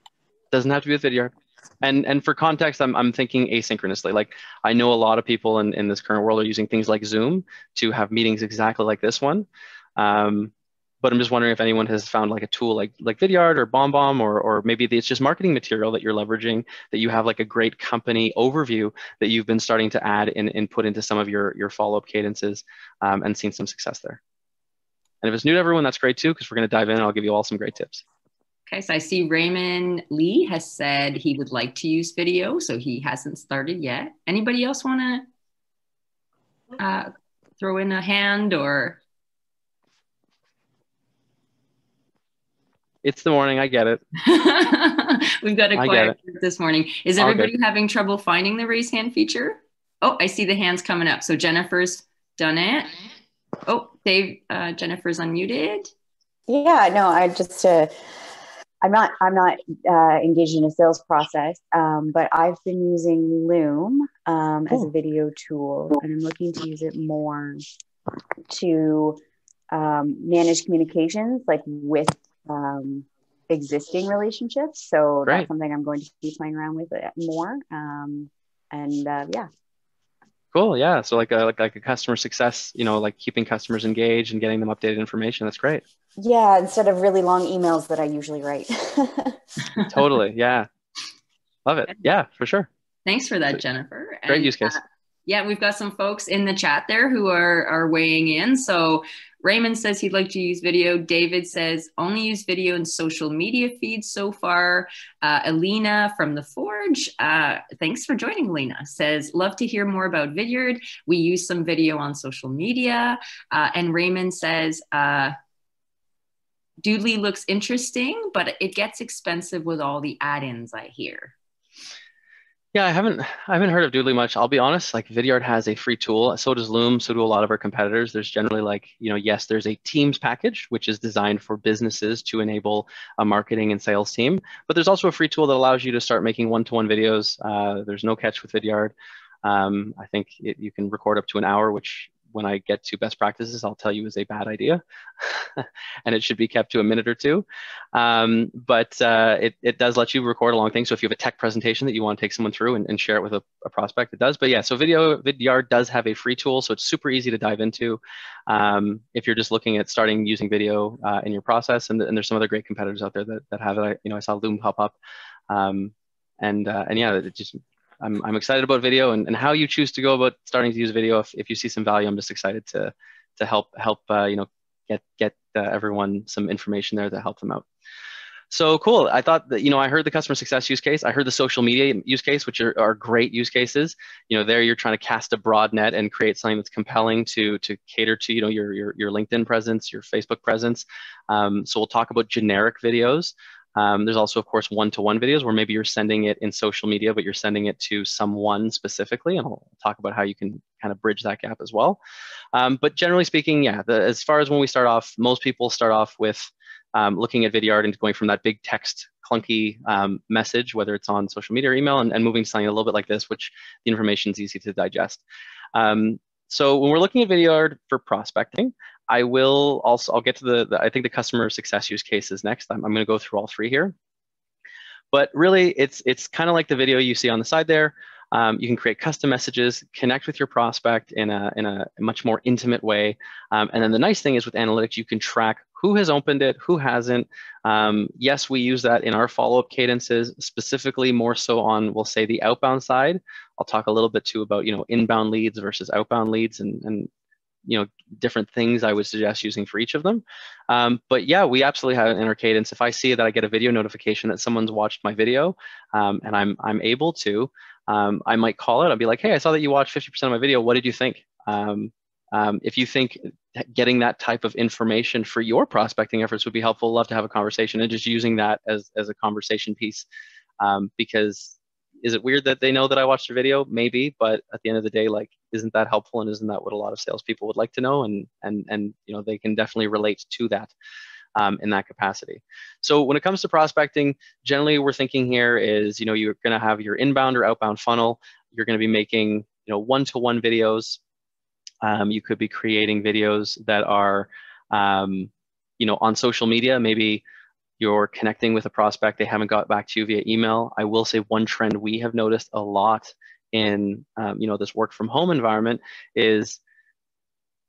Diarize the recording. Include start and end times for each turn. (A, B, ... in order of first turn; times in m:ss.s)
0:00.5-0:24.2 A
0:25.2-0:28.0 A
0:28.7-0:35.3 B
0:36.8-0:39.0 B
0:43.0-0:44.0 A
0:44.2-0:53.0 B
0:45.8-0:46.2 A
0:47.2-0:47.5 A
0:53.6-0:55.9 B
0:56.5-0:57.9 C
0:58.8-1:07.6 C
1:08.5-1:09.2 C
1:09.7-1:19.5 C
1:20.5-1:25.8 A
1:26.2-1:29.4 C
1:29.9-1:30.7 A
1:31.7-1:32.7 A
1:33.1-1:55.4 B
1:34.3-1:34.8 A
1:56.8-2:01.3 B
2:02.7-2:18.9 A
2:19.4-2:45.0 A
2:45.5-2:57.6 A
2:58.5-3:22.0 A
3:22.5-3:35.2 A
3:35.8-3:44.0 A
3:45.1-4:07.1 A
4:07.7-4:30.1 A
4:30.6-4:40.7 A
4:41.4-4:51.0 A
4:51.8-4:57.2 A
4:57.8-5:06.6 A